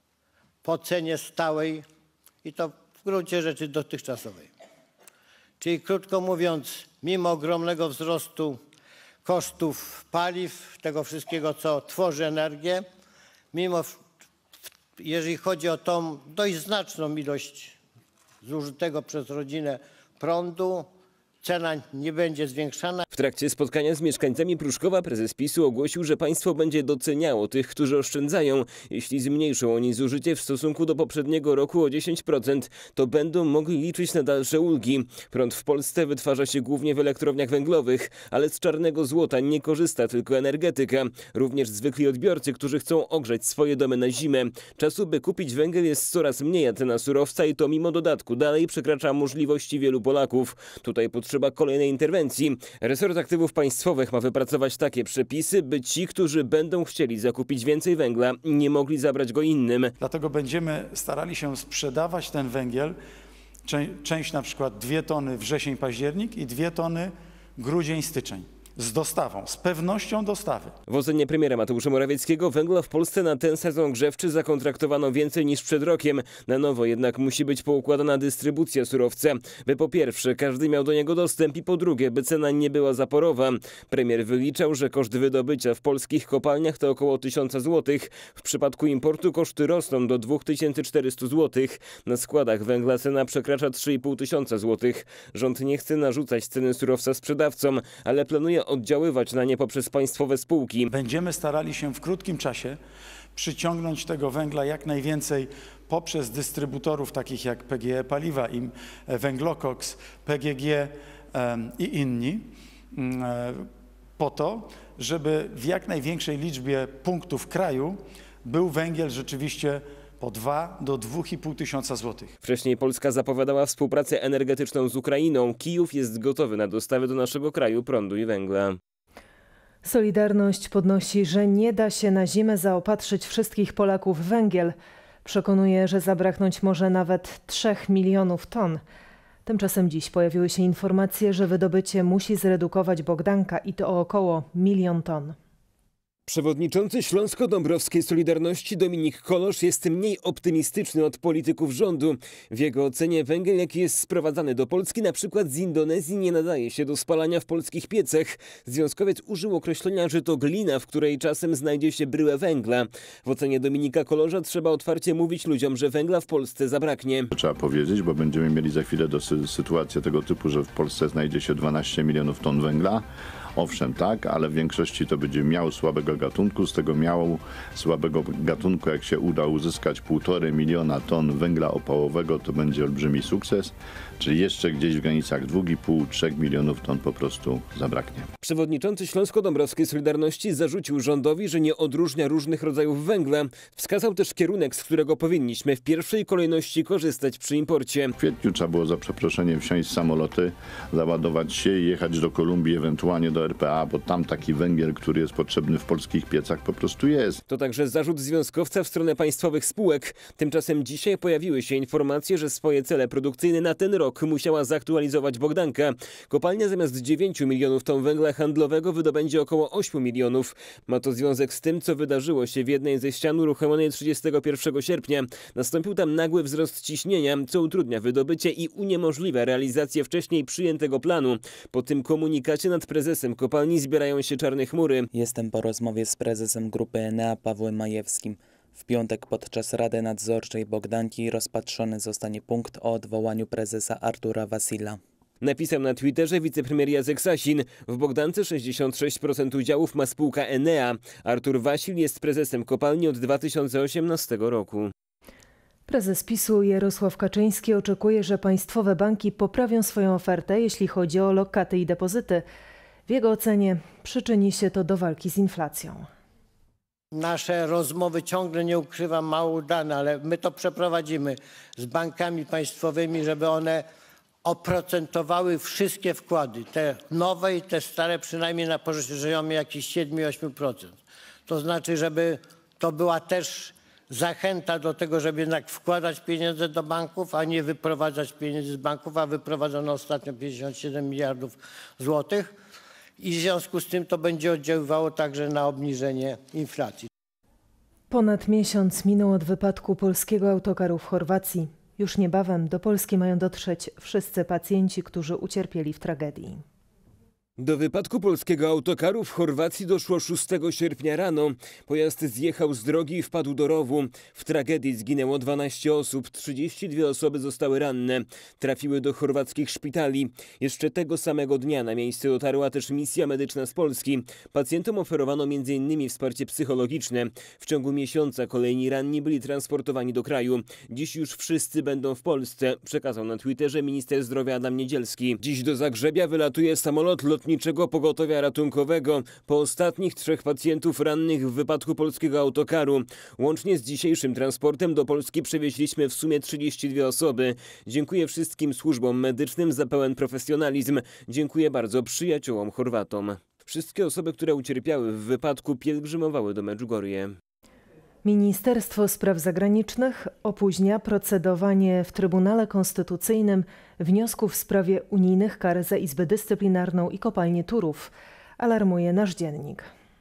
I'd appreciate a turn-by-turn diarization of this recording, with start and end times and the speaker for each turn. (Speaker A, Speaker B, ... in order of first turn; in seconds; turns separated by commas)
Speaker A: 0.6-1.9, Speaker A: 2.4-4.5, Speaker A: 5.6-8.6, Speaker A: 9.2-12.8, Speaker A: 13.5-14.0, Speaker A: 15.0-17.8, Speaker A: 18.4-20.9, Speaker A: 21.4-23.1, Speaker B: 23.1-59.9, Speaker C: 60.0-63.0, Speaker C: 63.6-70.7, Speaker B: 70.9-100.9, Speaker C: 100.9-102.8, Speaker C: 103.3-113.7, Speaker C: 114.2-122.3, Speaker B: 122.4-128.8, Speaker D: 129.8-138.8, Speaker D: 139.4-145.3, Speaker B: 146.3-167.3, Speaker E: 167.3-188.3, Speaker B: 188.4-198.1, Speaker E: 198.2-207.4, Speaker B: 207.5-235.1, Speaker F: 235.1-245.0, Speaker B: 245.4-254.9, Speaker D: 255.9-262.4, Speaker D: 263.1-266.1, Speaker A: 267.1-273.9, Speaker A: 274.4-292.6, Speaker A: 293.2-297.1, Speaker D: 298.1-306.6, Speaker B: 307.6-357.4, Speaker D: 358.2-369.9